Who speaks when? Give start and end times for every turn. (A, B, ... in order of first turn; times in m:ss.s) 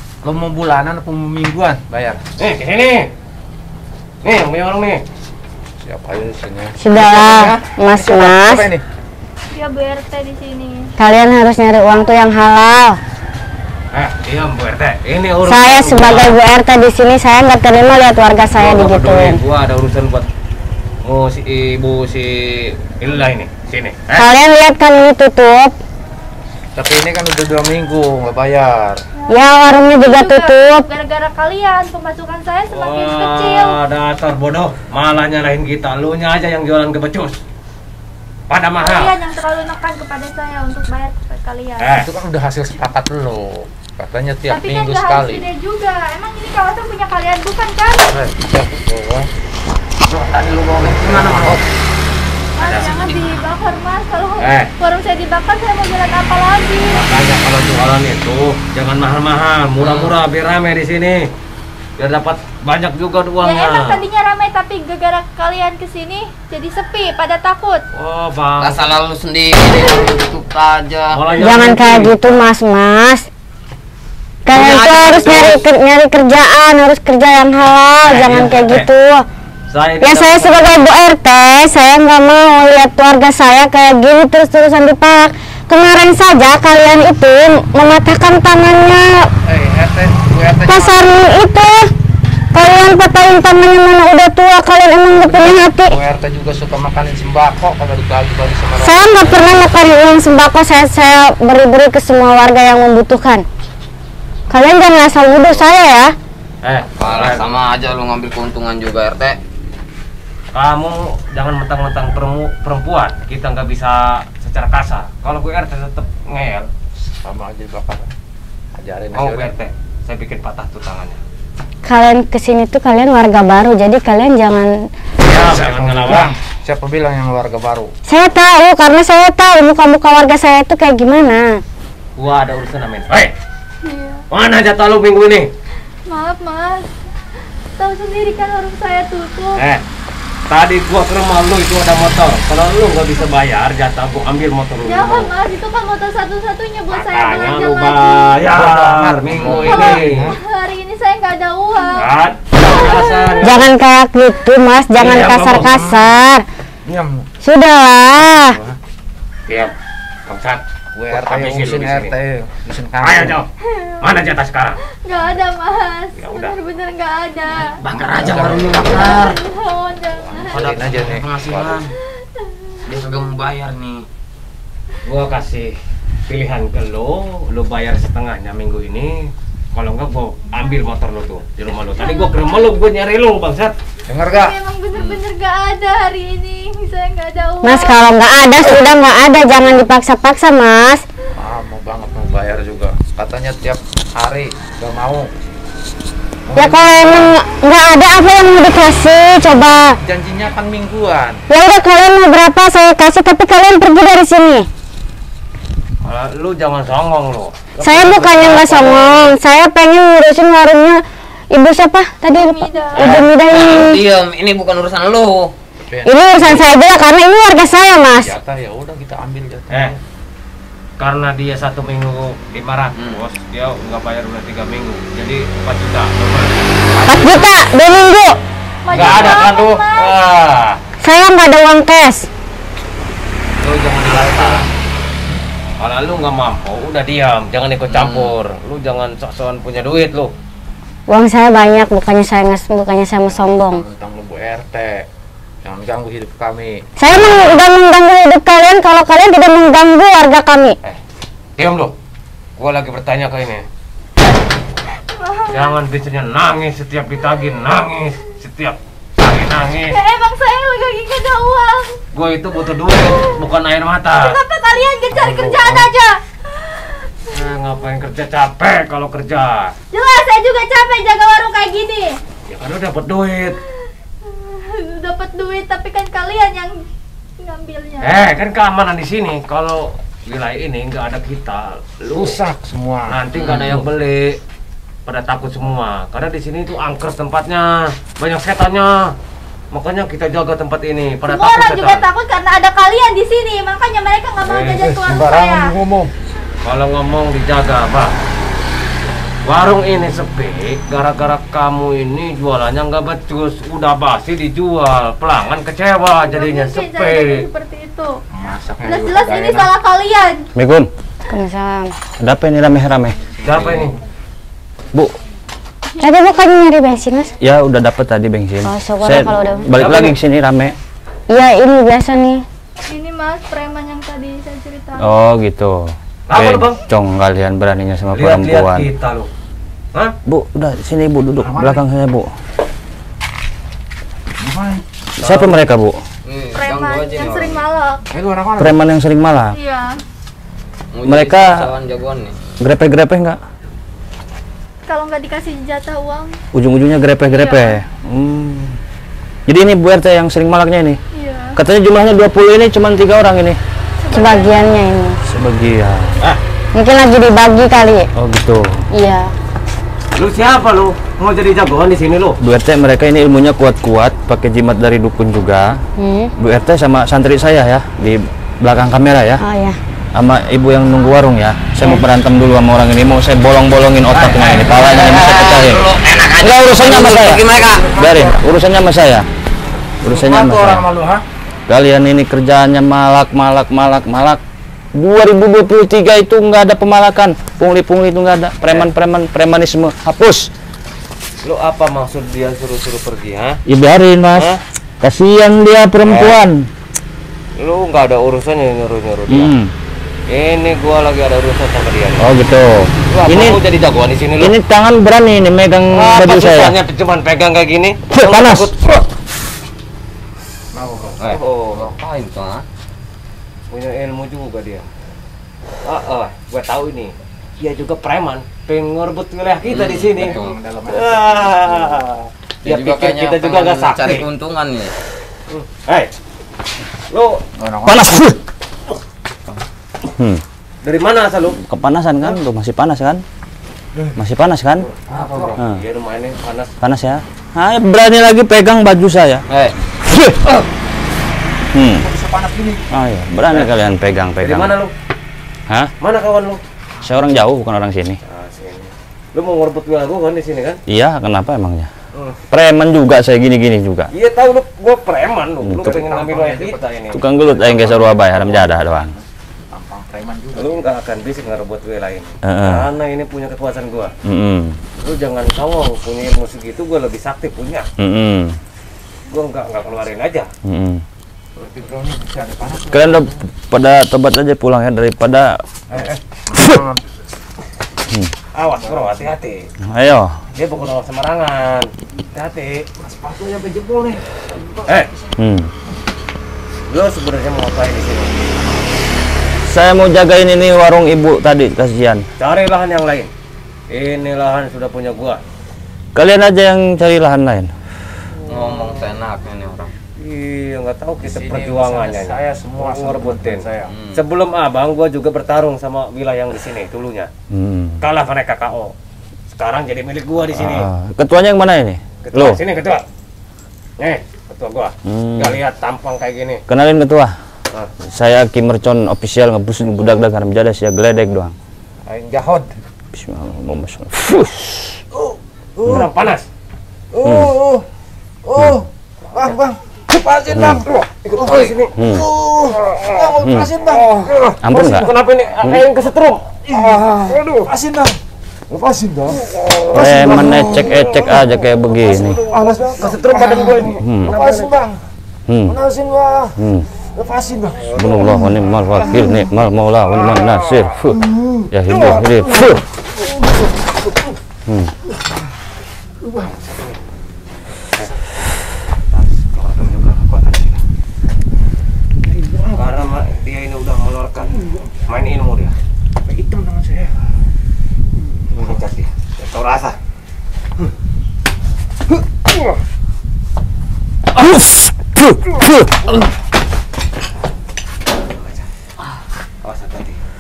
0:00.2-0:02.2 A
0:02.4-0:03.1 B
0:04.2-0:05.0 B
0:05.8-0:08.8 A
0:06.8-0:08.7 C
0:09.5-0:10.9 D
0:11.0-0:13.0 C
0:13.9-0:16.3 B
0:15.4-0:19.4 C
0:18.5-0:20.3 B
0:21.0-0:24.3 B
0:24.2-0:25.7 C
0:26.8-0:29.0 A
0:29.2-0:33.8 D
0:29.3-0:30.8 C
0:32.7-0:37.4 B
0:38.5-0:39.1 B
0:38.8-0:41.9 D
0:41.8-0:42.1 B
0:42.0-0:45.5 A
0:44.5-0:48.1 D
0:48.5-0:49.3 A
0:50.1-0:51.6 E
0:51.0-0:51.6 A
0:52.6-0:57.0 D
0:52.7-0:53.2 E
0:54.4-0:54.7 B
0:56.9-1:01.3 B
0:59.8-1:00.1 E
1:02.0-1:04.0 B
1:03.4-1:07.8 D
1:07.9-1:08.8 B
1:08.6-1:11.2 E
1:11.1-1:12.5 B
1:11.4-1:13.3 C
1:14.4-1:19.2 C
1:14.5-1:15.6 E
1:15.3-1:15.5 B
1:18.0-1:18.9 B
1:19.7-1:20.8 B
1:20.0-1:29.3 C
1:29.4-1:31.0 A
1:30.6-1:31.9 C
1:32.5-1:36.0 C
1:35.1-1:39.4 A
1:38.8-1:43.4 C
1:44.5-1:46.1 C
1:46.6-1:47.5 B
1:47.0-1:49.4 E
1:50.5-1:56.7 B
1:57.2-1:58.1 A
1:58.7-1:59.5 A
1:59.1-2:01.2 B
2:01.8-2:04.9 C
2:05.2-2:07.9 A
2:05.2-2:06.3 B
2:08.1-2:11.6 C
2:12.2-2:13.3 B
2:13.8-2:14.2 D
2:14.3-2:15.5 B
2:16.1-2:16.9 D
2:17.8-2:19.6 D
2:19.6-2:19.8 B
2:20.5-2:25.3 B
2:24.8-2:28.3 D
2:26.9-2:30.4 B
2:28.5-2:30.4 A
2:29.4-2:33.6 D
2:31.9-2:33.7 B
2:33.4-2:36.4 C
2:34.9-2:35.8 B
2:36.8-2:37.3 A
2:37.4-2:38.6 C
2:38.3-2:38.8 A
2:39.5-2:39.7 B
2:40.2-2:42.1 B
2:40.9-2:43.4 A
2:43.0-2:43.5 B
2:43.7-2:44.0 D
2:44.0-2:44.8 B
2:45.0-2:47.7 D
2:46.2-2:46.6 B
2:47.8-2:49.4 E
2:48.0-2:49.1 A
2:48.9-2:50.7 D
2:50.1-2:51.8 A
2:50.5-2:51.9 E
2:52.4-2:52.8 D
2:52.8-2:54.0 E
2:55.0-2:55.8 B
2:56.3-3:03.7 B
3:02.0-3:02.7 D
3:04.1-3:04.5 A
3:04.2-3:08.0 D
3:07.6-3:11.0 C
3:11.4-3:15.3 A
3:16.4-3:17.4 A
3:16.5-3:20.0 C
3:20.0-3:21.4 A
3:21.5-3:24.7 C
3:26.0-3:29.3 B
3:27.8-3:34.0 C
3:32.3-3:33.2 D
3:33.0-3:35.5 E
3:35.9-3:36.7 A
3:36.0-3:38.4 C
3:38.0-3:40.0 A
3:39.7-3:40.0 B
3:41.0-3:46.6 B
3:42.9-3:43.2 E
3:47.0-3:47.4 A
3:47.0-3:48.4 C
3:48.8-3:50.2 D
3:48.9-3:50.8 B
3:49.0-3:49.3 E
3:51.0-3:52.3 C
3:53.6-3:54.7 B
3:54.0-3:54.7 A
3:55.8-4:00.3 B
3:57.9-3:58.3 E
4:01.1-4:03.8 C
4:03.3-4:05.0 A
4:05.6-4:06.7 A
4:07.0-4:10.8 C
4:11.6-4:11.9 B
4:12.6-4:13.6 B
4:15.1-4:15.8 D
4:15.5-4:20.0 B
4:19.9-4:22.0 D
4:22.1-4:24.4 B
4:24.2-4:27.0 D
4:25.1-4:25.9 A
4:27.3-4:29.7 B
4:29.9-4:32.2 D
4:32.5-4:33.6 B
4:34.2-4:36.8 D
4:37.4-4:38.2 D
4:38.0-4:42.4 B
4:42.1-4:43.2 A
4:43.1-4:44.4 B
4:43.3-4:43.8 E
4:45.0-4:49.1 B
4:49.7-4:52.0 B
4:51.2-4:55.7 D
4:54.4-4:54.9 B
4:54.8-4:56.1 A
4:56.6-4:58.1 B
4:59.4-5:07.4 B
5:06.2-5:08.1 D
5:08.3-5:09.7 A
5:08.8-5:10.5 D
5:10.5-5:10.9 F
5:11.3-5:11.9 C
5:12.2-5:13.2 F
5:13.4-5:14.0 B
5:16.0-5:17.3 C
5:17.4-5:20.7 F
5:18.6-5:19.7 C
5:19.7-5:20.2 B
5:21.3-5:22.4 C
5:22.9-5:25.1 D
5:25.0-5:28.9 F
5:26.3-5:26.8 B
5:28.1-5:29.3 B
5:30.3-5:32.3 F
5:31.4-5:31.8 A
5:34.4-5:34.8 A
5:35.2-5:36.0 F
5:35.2-5:35.6 B
5:36.2-5:37.6 E
5:36.5-5:38.0 D
5:38.1-5:38.8 A
5:38.6-5:39.5 F
5:39.5-5:40.0 D
5:40.9-5:42.3 E
5:41.0-5:41.7 F
5:42.6-5:43.4 F
5:44.9-5:46.4 D
5:46.5-5:48.8 F
5:47.3-5:47.8 D
5:49.5-5:51.0 F
5:51.1-5:51.6 D
5:51.6-5:53.6 F
5:54.0-5:54.6 D
5:54.1-5:55.2 C
5:55.2-5:56.2 F
5:56.7-5:58.1 C
5:58.2-5:58.8 F
5:58.9-5:59.3 C
6:00.1-6:02.4 B
6:02.4-6:05.8 F
6:06.0-6:06.3 C
6:06.4-6:09.4 F
6:09.4-6:09.8 C
6:10.1-6:15.8 F
6:14.8-6:17.9 E
6:16.4-6:17.4 F
6:17.6-6:18.3 A
6:17.9-6:19.2 F
6:20.0-6:20.8 F
6:20.0-6:21.2 A
6:21.7-6:24.4 F
6:25.0-6:30.5 F
6:28.6-6:28.9 B
6:31.4-6:33.6 B
6:33.7-6:36.7 F
6:36.0-6:36.4 B
6:37.6-6:39.5 B
6:39.3-6:39.7 F
6:40.3-6:42.3 B
6:42.2-6:43.6 F
6:43.1-6:44.5 B
6:44.4-6:46.7 F
6:45.9-6:49.0 B
6:48.1-6:48.7 F
6:50.7-6:51.4 A
6:51.2-6:51.9 B
6:51.7-6:52.6 E
6:53.7-6:54.9 B
6:55.8-7:04.2 B
6:59.6-7:00.5 E
7:00.0-7:02.0 A
7:02.6-7:04.9 E
7:05.5-7:06.1 B
7:07.1-7:07.4 B
7:07.6-7:08.2 A
7:07.8-7:08.4 F
7:10.2-7:10.4 F
7:10.8-7:11.6 B
7:11.6-7:13.2 F
7:14.2-7:14.8 F
7:15.1-7:15.6 A
7:15.1-7:16.7 B
7:16.8-7:19.4 F
7:19.5-7:19.7 E
7:20.0-7:20.3 F
7:21.7-7:22.1 F
7:22.0-7:22.8 A
7:22.9-7:24.8 F
7:24.4-7:24.9 B
7:26.0-7:26.6 B
7:27.0-7:28.2 F
7:28.2-7:30.8 B
7:30.9-7:31.9 F
7:32.1-7:32.4 B
7:32.5-7:34.1 F
7:34.1-7:37.2 B
7:35.6-7:36.0 F
7:35.8-7:36.8 A
7:37.1-7:39.1 F
7:37.4-7:40.8 A
7:40.5-7:44.1 B
7:42.4-7:42.9 F
7:44.2-7:44.8 F
7:45.0-7:47.8 B
7:48.0-7:48.6 F
7:49.3-7:50.5 B
7:50.6-7:51.0 F
7:51.6-7:53.4 A
7:52.9-7:55.6 F
7:55.9-7:57.0 A
7:58.5-7:59.7 B
7:58.8-7:59.2 A
7:59.9-8:00.4 F
8:00.5-8:02.9 B
8:03.0-8:05.1 A
8:04.8-8:05.1 B
8:05.4-8:05.7 F
8:06.9-8:08.4 B
8:09.6-8:12.2 F
8:12.4-8:13.3 B
8:13.9-8:15.4 B
8:16.1-8:17.7 F
8:18.5-8:19.9 E
8:20.2-8:27.3 B
8:21.2-8:24.0 A
8:27.5-8:28.0 F
8:28.0-8:28.9 B
8:29.5-8:30.9 B
8:30.5-8:32.6 F
8:32.2-8:33.0 B
8:34.0-8:36.6 B
8:35.0-8:35.6 F
8:36.7-8:37.3 F
8:38.1-8:41.5 F
8:42.0-8:42.7 A
8:43.1-8:45.0 F
8:45.2-8:46.1 A
8:45.8-8:46.5 B
8:47.1-8:47.8 A
8:47.2-8:47.6 F
8:48.4-8:54.6 A
8:48.6-8:48.8 F
8:49.3-8:49.6 B
8:50.5-8:50.8 F
8:51.2-8:52.0 B
8:52.0-8:52.3 F
8:52.8-8:53.2 B
8:53.4-8:53.7 F
8:53.9-8:57.7 B
8:54.6-8:55.1 F
8:56.7-8:58.2 A
8:58.7-9:01.3 A
8:59.8-9:00.2 B
8:59.9-9:02.4 F
9:02.1-9:05.0 A
9:02.9-9:04.7 B
9:04.0-9:04.4 F
9:05.5-9:05.8 F
9:05.7-9:06.5 A
9:06.6-9:06.9 F
9:07.1-9:07.9 A
9:07.9-9:08.2 B
9:07.9-9:12.8 F
9:11.3-9:12.6 A
9:14.7-9:14.9 F
9:16.4-9:17.0 B
9:19.1-9:20.8 B
9:22.3-9:22.8 A
9:22.7-9:25.7 B
9:26.3-9:27.1 A
9:28.5-9:28.8 A
9:28.5-9:30.0 B
9:38.4-9:38.6 B
9:39.6-9:40.2 B